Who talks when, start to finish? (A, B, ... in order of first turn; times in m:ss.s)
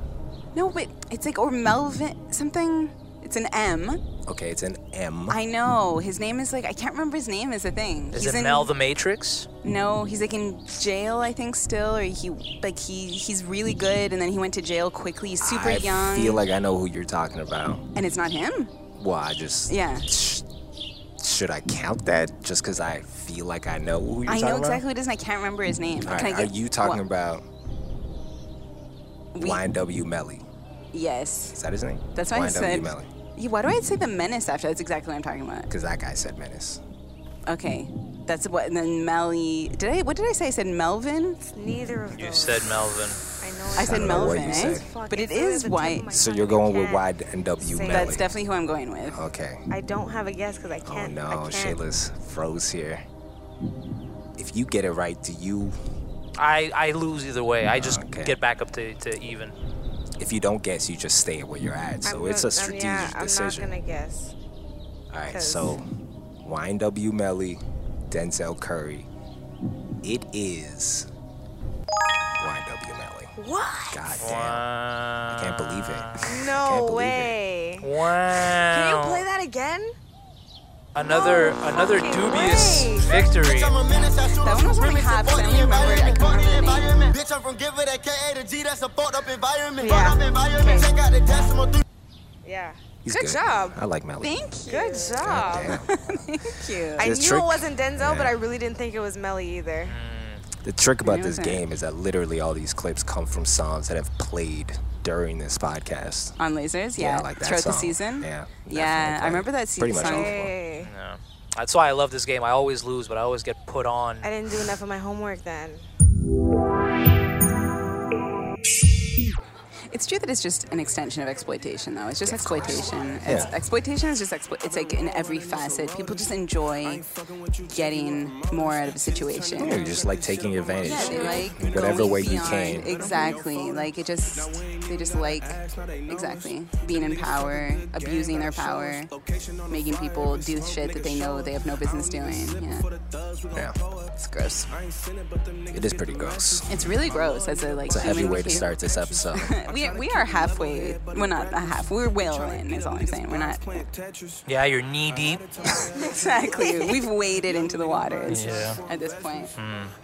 0:00.5-0:04.0 A
0:04.3-0:05.4 B
0:05.3-0:08.7 A
0:08.1-0:09.5 C
0:09.6-0:16.4 A
0:15.4-0:17.8 B
0:18.0-0:18.7 A
0:19.0-0:20.5 B
0:19.7-0:20.1 A
0:21.2-0:24.8 B
0:24.3-0:27.0 A
0:26.0-0:27.4 B
0:29.3-0:29.6 A
0:29.4-0:30.4 B
0:30.9-0:31.6 A
0:31.6-0:33.1 B
0:32.2-0:35.7 A
0:35.7-0:36.8 B
0:37.5-0:41.4 A
0:41.4-0:42.8 D
0:42.1-0:43.2 C
0:43.4-0:47.0 D
0:43.8-0:46.1 A
0:43.8-0:44.9 B
0:46.1-0:48.3 B
0:47.6-0:48.2 D
0:47.9-0:49.2 A
0:49.1-0:49.7 B
0:49.7-0:51.8 D
0:50.8-0:53.1 B
0:54.4-0:55.8 B
0:56.4-0:59.6 C
0:57.7-0:58.4 B
1:00.2-1:03.7 B
1:02.0-1:04.3 D
1:05.1-1:09.1 B
1:05.3-1:05.8 D
1:10.0-1:11.1 B
1:12.4-1:13.3 B
1:13.4-1:14.1 D
1:13.9-1:14.7 B
1:14.2-1:16.4 C
1:15.3-1:17.4 B
1:16.3-1:17.9 D
1:17.8-1:19.3 C
1:18.5-1:20.0 D
1:21.0-1:23.8 C
1:21.0-1:23.2 D
1:23.2-1:31.8 E
1:24.4-1:26.9 A
1:29.8-1:30.9 D
1:32.4-1:33.8 D
1:33.0-1:34.5 B
1:34.2-1:37.1 A
1:34.7-1:35.8 D
1:35.2-1:35.9 B
1:37.0-1:40.0 D
1:37.0-1:38.3 B
1:39.8-1:40.5 C
1:40.6-1:46.4 B
1:41.0-1:41.6 A
1:46.4-1:50.4 A
1:47.0-1:50.6 B
1:50.0-1:50.9 D
1:50.8-1:54.3 C
1:54.2-1:55.9 D
1:59.9-2:07.1 A
2:02.2-2:03.6 B
2:07.7-2:09.9 A
2:09.6-2:13.1 B
2:10.8-2:19.2 A
2:10.9-2:11.5 D
2:13.0-2:13.4 D
2:19.7-2:22.9 A
2:23.5-2:23.8 B
2:24.1-2:24.7 A
2:25.7-2:26.8 B
2:26.7-2:28.7 A
2:27.9-2:29.6 B
2:29.4-2:33.9 A
2:34.5-2:35.5 C
2:35.8-2:39.6 A
2:36.6-2:36.8 D
2:38.3-2:38.8 C
2:39.6-2:40.0 C